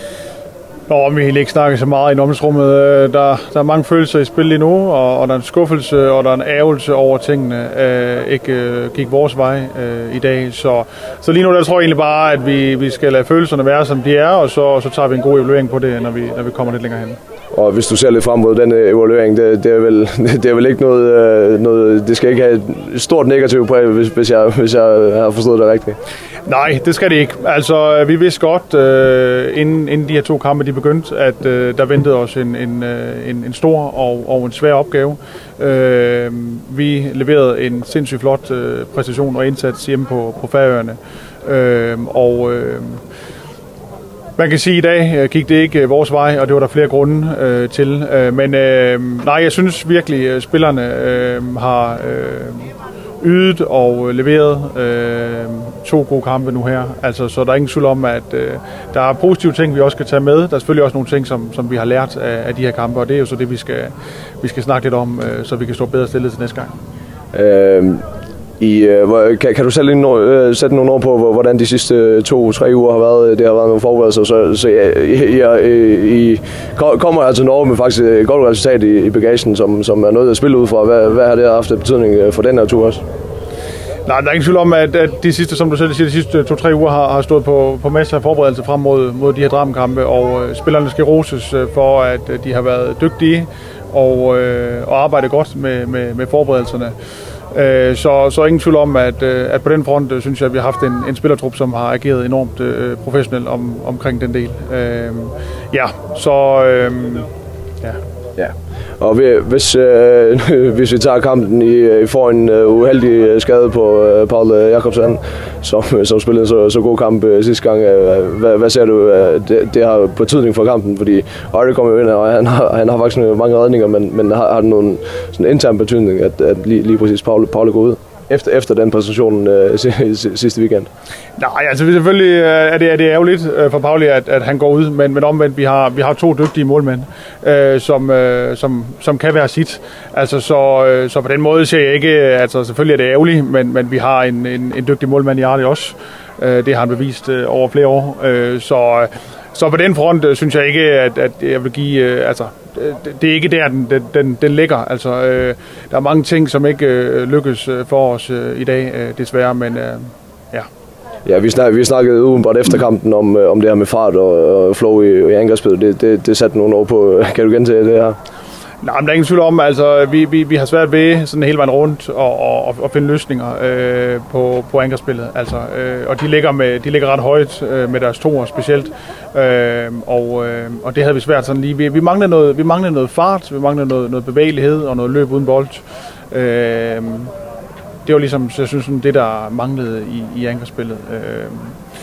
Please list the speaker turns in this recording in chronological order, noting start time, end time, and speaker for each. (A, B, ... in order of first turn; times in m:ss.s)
0:00.9-0:17.2 A
0:17.5-0:26.0 B
0:26.5-0:43.0 A
0:44.4-1:06.7 A
1:07.3-1:08.1 B
1:08.6-1:23.0 B
1:24.1-1:36.9 A
1:37.5-1:47.3 A
1:48.4-2:10.9 B
2:11.4-2:40.7 A
2:41.2-2:48.2 B
2:48.8-3:07.3 A
3:08.0-3:11.8 A